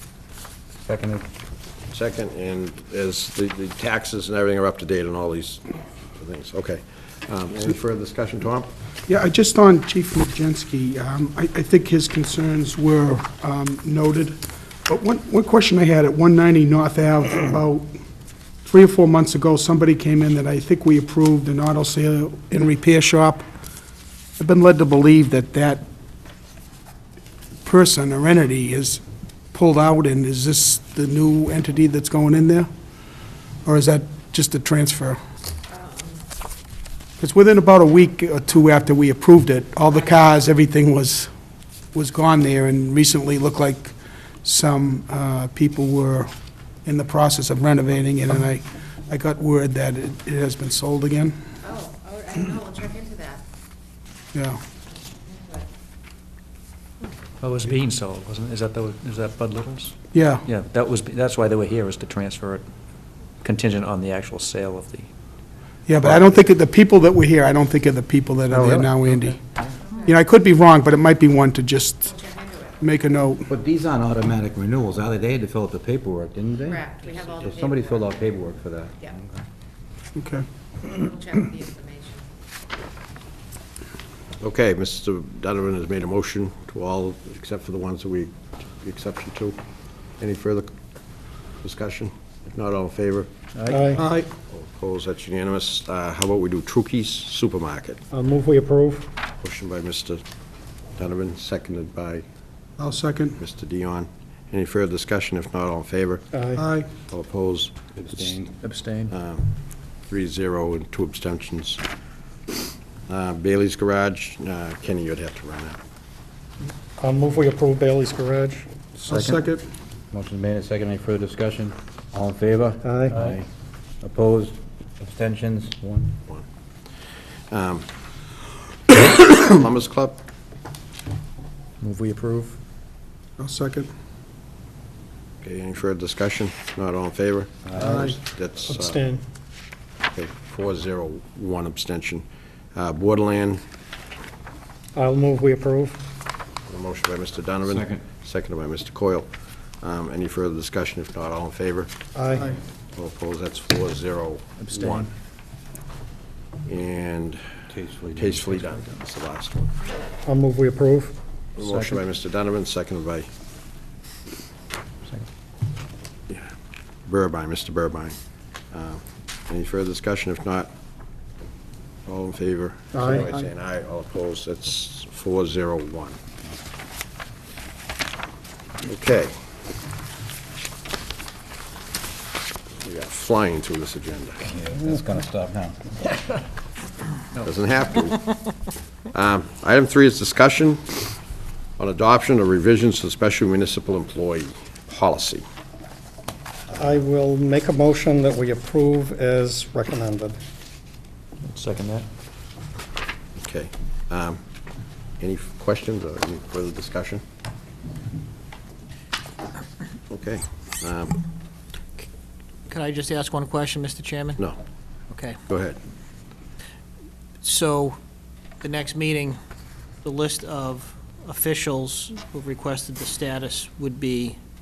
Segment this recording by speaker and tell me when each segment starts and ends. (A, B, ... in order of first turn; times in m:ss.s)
0:00.8-0:01.2 A
0:01.9-0:08.7 B
0:09.0-0:17.9 C
0:18.6-0:23.4 C
0:24.4-0:25.8 C
0:27.6-0:29.0 C
0:29.5-0:32.7 C
0:33.6-0:35.2 C
0:37.2-0:41.3 C
0:41.9-0:46.3 C
0:46.8-0:51.4 C
0:51.7-0:53.3 D
0:54.3-0:54.6 C
0:57.4-1:02.6 E
1:00.1-1:00.4 C
1:03.4-1:05.1 E
1:05.8-1:09.4 C
1:08.5-1:09.7 A
1:10.0-1:12.2 C
1:12.2-1:12.6 D
1:12.8-1:13.5 C
1:13.5-1:19.4 A
1:17.0-1:17.8 D
1:20.2-1:20.4 C
1:21.1-1:22.2 D
1:24.4-1:29.6 B
1:30.2-1:30.7 B
1:31.6-1:33.3 B
1:33.5-1:34.0 E
1:33.7-1:34.0 F
1:33.9-1:34.3 C
1:34.4-1:38.0 B
1:38.1-1:39.1 F
1:39.4-1:40.2 B
1:41.0-1:42.2 B
1:42.8-1:43.4 C
1:43.4-1:46.3 B
1:46.3-1:46.6 F
1:46.5-1:46.9 C
1:47.0-1:48.3 B
1:47.9-1:48.6 A
1:48.2-1:49.1 E
1:49.1-1:49.5 B
1:50.1-1:51.8 B
1:53.1-1:55.8 B
1:57.0-1:58.6 F
1:59.0-1:59.7 C
1:59.1-1:59.4 A
2:00.1-2:03.5 A
2:02.8-2:03.1 F
2:04.0-2:06.1 A
2:07.5-2:07.9 B
2:08.9-2:10.2 B
2:11.8-2:12.6 E
2:13.4-2:13.9 C
2:15.4-2:19.0 B
2:17.6-2:18.1 A
2:17.8-2:18.2 C
2:17.8-2:19.2 F
2:20.1-2:22.2 B
2:22.7-2:23.6 B
2:24.9-2:26.0 F
2:26.7-2:31.9 B
2:27.6-2:28.0 A
2:32.1-2:32.5 F
2:32.9-2:35.1 B
2:34.6-2:35.1 E
2:36.6-2:37.5 B
2:37.7-2:38.5 A
2:38.1-2:39.7 B
2:38.5-2:38.8 E
2:40.2-2:41.2 F
2:41.6-2:43.3 B
2:41.6-2:42.0 E
2:47.0-2:48.2 B
2:48.7-2:50.7 B
2:52.0-2:56.2 B
2:52.9-2:53.4 F
2:58.8-2:59.4 B
3:02.8-3:04.4 B
3:04.4-3:05.9 A
3:07.4-3:08.4 B
3:09.1-3:10.9 B
3:11.8-3:15.4 B
3:16.7-3:20.4 F
3:21.4-3:22.1 E
3:23.4-3:24.4 B
3:25.2-3:27.2 B
3:30.1-3:31.2 B
3:32.7-3:34.4 G
3:35.1-3:35.4 G
3:35.5-3:35.8 B
3:37.4-3:38.0 G
3:38.6-3:39.4 G
3:40.0-3:44.4 G